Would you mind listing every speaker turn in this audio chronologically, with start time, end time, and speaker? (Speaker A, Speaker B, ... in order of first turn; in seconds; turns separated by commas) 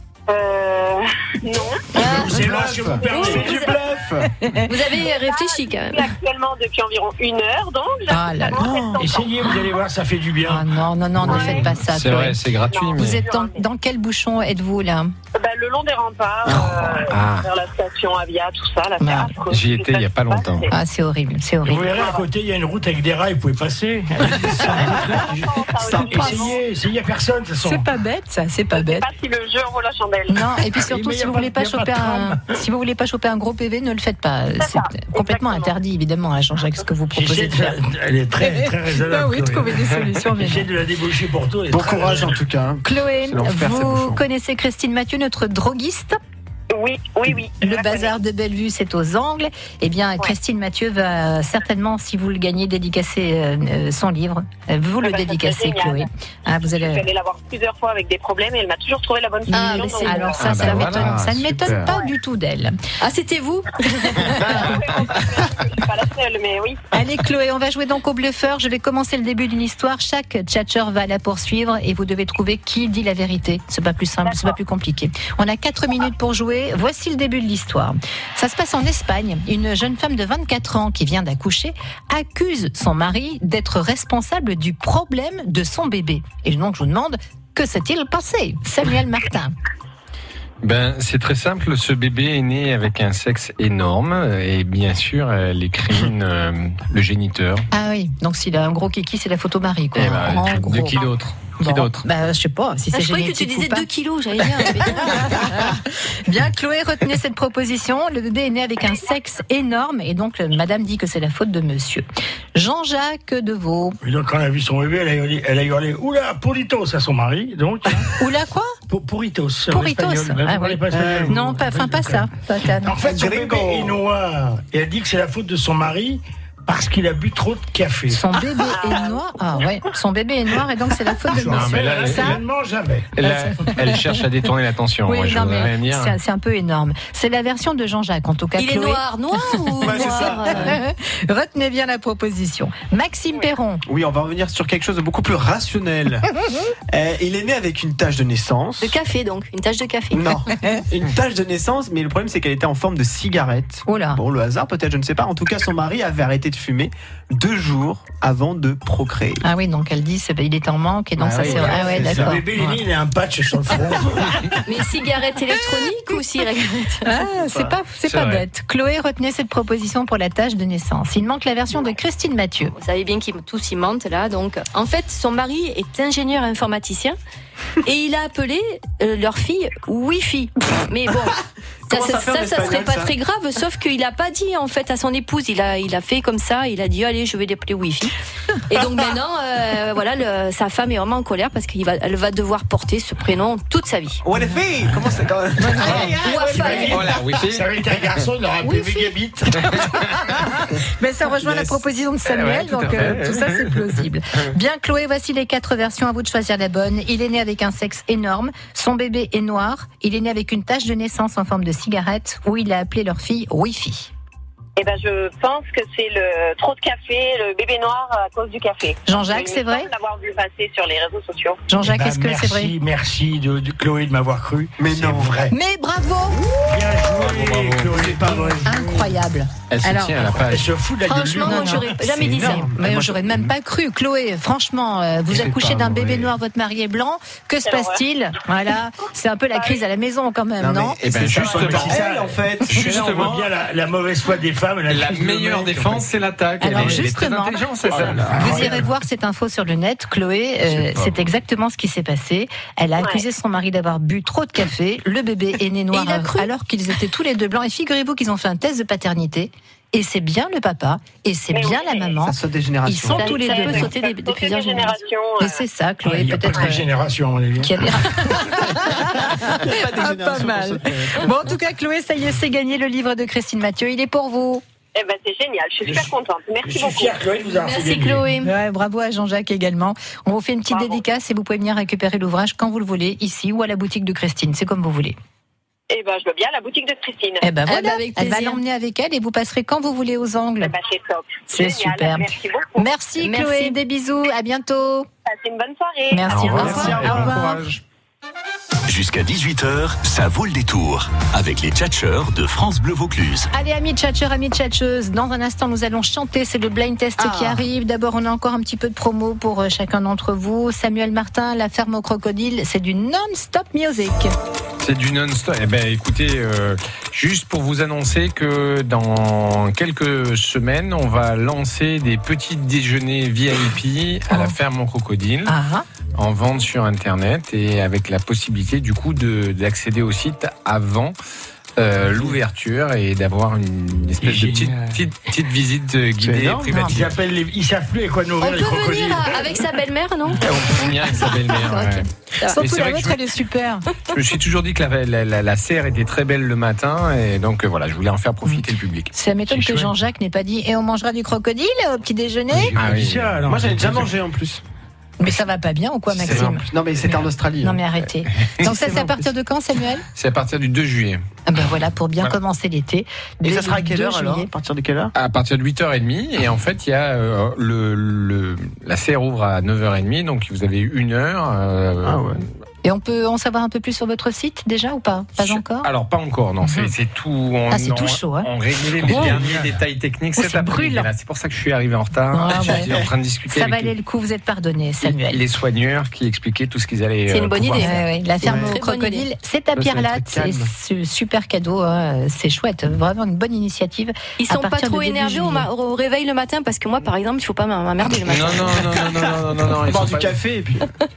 Speaker A: 0.3-2.0, Speaker B: 1.9-4.3, Speaker C: 2.0-3.6, Speaker D: 3.0-3.7, Speaker D: 4.7-6.1, Speaker A: 5.0-9.4, Speaker E: 8.1-8.9, Speaker C: 8.9-10.7, Speaker E: 10.4-12.4, Speaker C: 11.2-11.7, Speaker A: 11.3-11.7, Speaker F: 11.8-13.2, Speaker A: 12.7-13.6, Speaker E: 12.9-15.1, Speaker A: 15.3-20.7, Speaker F: 16.4-17.5, Speaker E: 19.0-19.4, Speaker F: 19.5-20.7, Speaker E: 20.7-21.9, Speaker C: 21.6-27.9, Speaker A: 21.8-22.2, Speaker B: 24.6-25.2, Speaker A: 25.1-26.6, Speaker B: 25.8-26.2, Speaker E: 27.6-29.1, Speaker A: 28.7-30.4, Speaker E: 30.3-37.8, Speaker C: 30.7-32.5, Speaker A: 34.6-35.8, Speaker C: 37.1-42.4, Speaker E: 38.4-40.7, Speaker B: 41.7-44.2, Speaker E: 42.8-46.2, Speaker A: 46.7-48.2, Speaker E: 47.6-57.0, Speaker A: 55.0-60.4, Speaker E: 59.5-62.8, Speaker D: 59.5-60.9, Speaker F: 60.4-61.8, Speaker B: 61.0-61.9, Speaker D: 63.0-64.7, Speaker A: 64.3-66.8, Speaker E: 66.9-89.5, Speaker A: 74.2-74.5, Speaker F: 90.6-97.7, Speaker E: 97.7-103.9, Speaker F: 99.9-102.0, Speaker D: 102.9-105.5, Speaker E: 104.6-114.0, Speaker C: 114.0-118.2, Speaker E: 118.2-118.7, Speaker C: 118.9-128.2, Speaker E: 119.7-123.0, Speaker B: 120.9-121.4, Speaker B: 123.0-124.0, Speaker E: 128.1-132.4, Speaker A: 128.7-129.2, Speaker C: 131.3-133.3, Speaker F: 131.5-132.4, Speaker F: 133.1-136.1, Speaker E: 135.1-139.0, Speaker D: 138.6-140.8, Speaker E: 139.8-143.8, Speaker B: 139.8-140.7, Speaker B: 143.8-146.3, Speaker B: 146.9-148.9, Speaker D: 148.8-150.3, Speaker B: 150.1-159.4, Speaker E: 153.9-154.2, Speaker E: 159.4-162.7, Speaker B: 161.2-162.4, Speaker C: 161.4-164.5, Speaker D: 164.7-167.1, Speaker E: 167.0-172.7, Speaker F: 168.0-168.4, Speaker D: 172.7-177.2, Speaker D: 177.8-181.4, Speaker B: 181.9-183.1, Speaker D: 181.9-188.1, Speaker D: 188.7-194.2, Speaker B: 194.2-197.2, Speaker D: 195.7-197.1, Speaker C: 195.8-200.1, Speaker F: 196.7-197.8, Speaker E: 198.6-198.9, Speaker F: 199.6-199.9, Speaker E: 200.8-214.1, Speaker F: 202.2-204.0, Speaker A: 214.8-221.6, Speaker E: 219.1-219.9, Speaker E: 221.7-222.7, Speaker C: 221.8-225.5, Speaker B: 224.8-225.5, Speaker E: 225.5-226.4, Speaker C: 226.7-229.1, Speaker B: 226.7-228.7, Speaker F: 227.3-228.0, Speaker E: 228.7-230.3, Speaker F: 229.7-230.7, Speaker C: 230.4-232.0, Speaker D: 231.1-232.7, Speaker E: 231.4-241.0, Speaker B: 232.0-233.5, Speaker B: 235.3-236.3, Speaker A: 237.6-238.0, Speaker A: 239.5-239.9, Speaker B: 240.6-243.5, Speaker F: 241.0-242.0, Speaker C: 241.3-246.1, Speaker F: 242.6-243.3, Speaker F: 244.9-248.8, Speaker E: 246.6-263.9, Speaker C: 246.7-247.0, Speaker C: 247.8-248.8, Speaker B: 247.9-248.7, Speaker A: 253.0-253.2, Speaker D: 255.9-256.5, Speaker A: 261.5-262.2, Speaker B: 262.2-263.4, Speaker D: 263.1-265.0, Speaker A: 263.2-265.6, Speaker E: 265.4-266.8, Speaker C: 266.0-267.9, Speaker E: 267.6-274.6, Speaker B: 269.0-271.3, Speaker A: 274.9-277.2, Speaker C: 275.8-278.3, Speaker D: 277.5-278.5, Speaker E: 278.4-285.1, Speaker A: 280.7-281.0, Speaker A: 285.9-287.4, Speaker E: 287.4-290.7, Speaker D: 287.7-288.6, Speaker A: 290.6-292.9, Speaker E: 291.5-295.1, Speaker D: 293.2-293.8, Speaker A: 295.2-296.7, Speaker E: 296.1-297.6, Speaker F: 296.3-297.8, Speaker B: 296.6-297.4, Speaker G: 298.9-303.5, Speaker E: 303.5-314.3, Speaker B: 307.2-307.6, Speaker F: 314.8-325.6, Speaker E: 325.5-325.8, Speaker F: 326.1-331.1, Speaker F: 331.8-337.1, Speaker C: 332.1-332.4, Speaker C: 334.2-335.0, Speaker B: 336.2-336.9, Speaker C: 336.8-339.6, Speaker D: 338.4-342.6, Speaker F: 340.4-343.2, Speaker E: 342.5-343.9, Speaker F: 344.1-349.1, Speaker E: 348.4-352.7, Speaker C: 352.5-354.1, Speaker F: 352.7-353.3, Speaker B: 353.5-354.6, Speaker E: 355.2-356.6, Speaker B: 356.1-357.8, Speaker F: 356.2-356.6, Speaker E: 357.6-360.0, Speaker B: 358.6-359.3, Speaker F: 360.1-361.2, Speaker E: 361.4-364.5, Speaker B: 363.4-365.1, Speaker F: 365.1-372.3, Speaker B: 372.0-372.4, Speaker E: 372.8-375.9, Speaker F: 375.4-383.9, Speaker E: 376.6-376.9, Speaker E: 377.7-378.5, Speaker C: 379.0-379.8, Speaker E: 379.1-379.4, Speaker E: 380.4-381.1, Speaker E: 382.3-382.9, Speaker B: 382.7-383.1, Speaker E: 383.5-385.4, Speaker F: 385.0-388.1, Speaker D: 387.3-389.2, Speaker E: 387.8-395.7, Speaker B: 388.4-388.7, Speaker B: 389.8-390.7, Speaker D: 394.4-399.0, Speaker F: 398.2-400.4, Speaker B: 399.6-400.8